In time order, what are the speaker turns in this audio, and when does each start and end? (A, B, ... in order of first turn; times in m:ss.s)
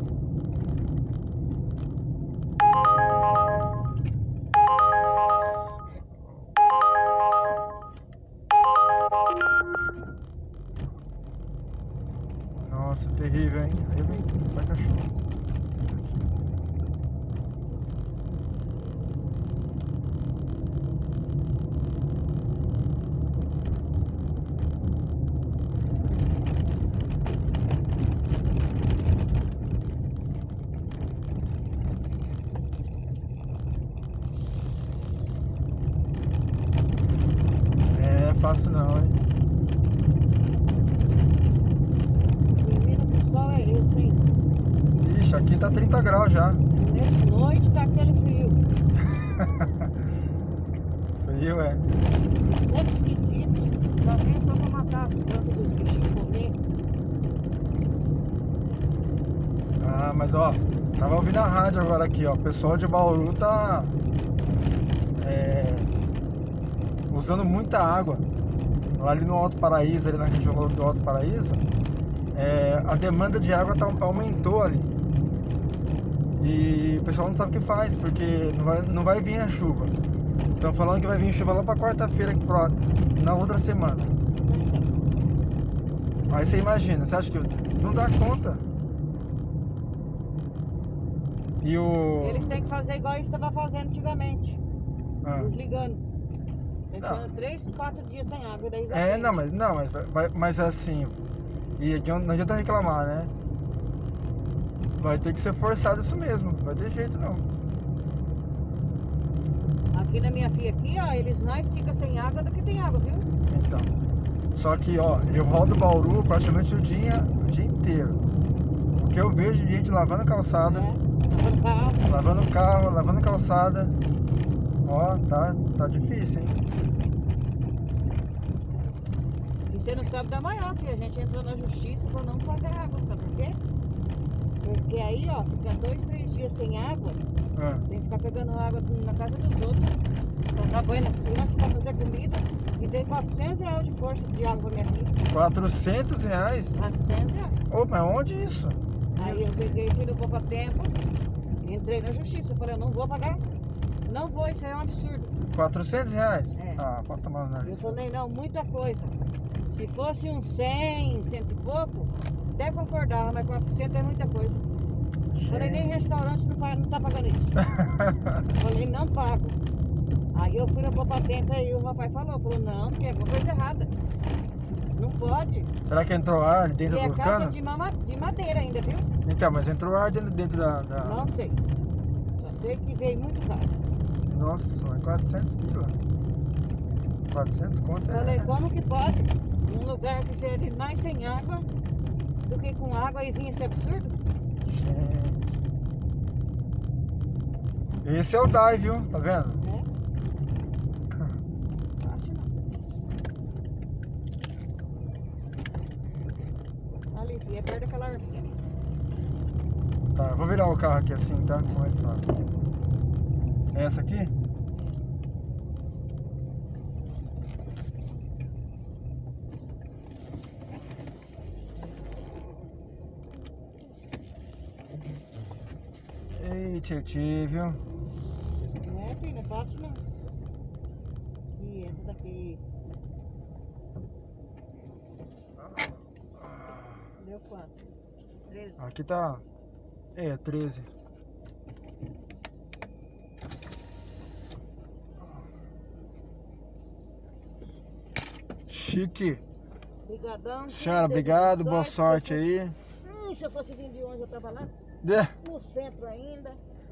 0:12.6-0:15.1 A
0:37.9-0:39.2 A
0:42.6-0:44.2 B
0:45.0-0:46.6 A
0:46.7-0:48.6 B
0:49.2-0:49.7 A
0:51.2-0:51.8 A
0:52.5-0:56.6 B
0:59.8-1:03.9 A
1:05.2-1:05.9 A
1:07.1-1:08.2 A
1:09.0-1:11.6 A
1:12.3-1:14.9 A
1:16.4-1:19.9 A
1:20.6-1:24.2 A
1:24.4-1:24.9 B
1:26.3-1:28.6 A
1:31.6-1:32.6 A
1:32.2-1:34.6 B
1:35.2-1:35.5 A
1:35.4-1:36.0 B
1:36.9-1:39.4 B
1:37.0-1:37.3 A
1:38.9-1:41.2 A
1:41.8-1:43.3 A
1:45.0-1:47.5 A
1:49.9-1:53.3 B
1:53.5-1:53.9 A
1:54.6-1:58.2 A
1:59.0-2:00.9 A
2:00.6-2:02.2 B
2:02.1-2:04.0 A
2:04.8-2:06.6 A
2:09.7-2:13.6 B
2:14.6-2:17.2 B
2:17.6-2:17.9 A
2:17.9-2:20.0 B
2:20.5-2:25.2 B
2:25.3-2:26.8 A
2:26.8-2:27.7 B
2:27.7-2:29.4 A
2:29.2-2:30.9 B
2:31.6-2:33.4 B
2:34.1-2:35.3 B
2:35.5-2:38.0 A
2:36.6-2:36.8 B
2:37.6-2:39.2 B
2:39.7-2:44.6 B
2:45.3-2:45.9 A
2:45.5-2:47.6 B
2:47.6-2:48.4 A
2:48.6-2:49.6 B
2:50.3-2:53.9 B
2:55.0-2:55.7 B
2:55.9-2:57.6 A
2:56.8-2:59.1 B
2:59.2-3:01.3 A
3:01.0-3:01.6 B
3:02.4-3:03.7 B
3:04.3-3:06.0 A
3:07.3-3:08.5 A
3:08.1-3:11.7 B
3:12.5-3:14.1 B
3:14.7-3:15.4 A
3:18.0-3:19.6 A
3:19.6-3:19.8 B
3:22.0-3:22.5 B
3:27.1-3:28.5 B
3:30.2-3:32.4 A
3:33.7-3:34.3 A
3:46.3-3:47.8 A
3:48.8-3:50.0 B
3:51.6-3:52.6 B
3:55.6-3:57.1 A
3:57.2-3:58.0 B
3:58.5-3:58.8 B
3:58.8-3:59.4 A
4:00.2-4:00.9 A
4:08.7-4:09.4 A
4:10.0-4:14.7 B
4:10.7-4:12.8 A
4:15.0-4:15.4 A
4:15.4-4:16.6 B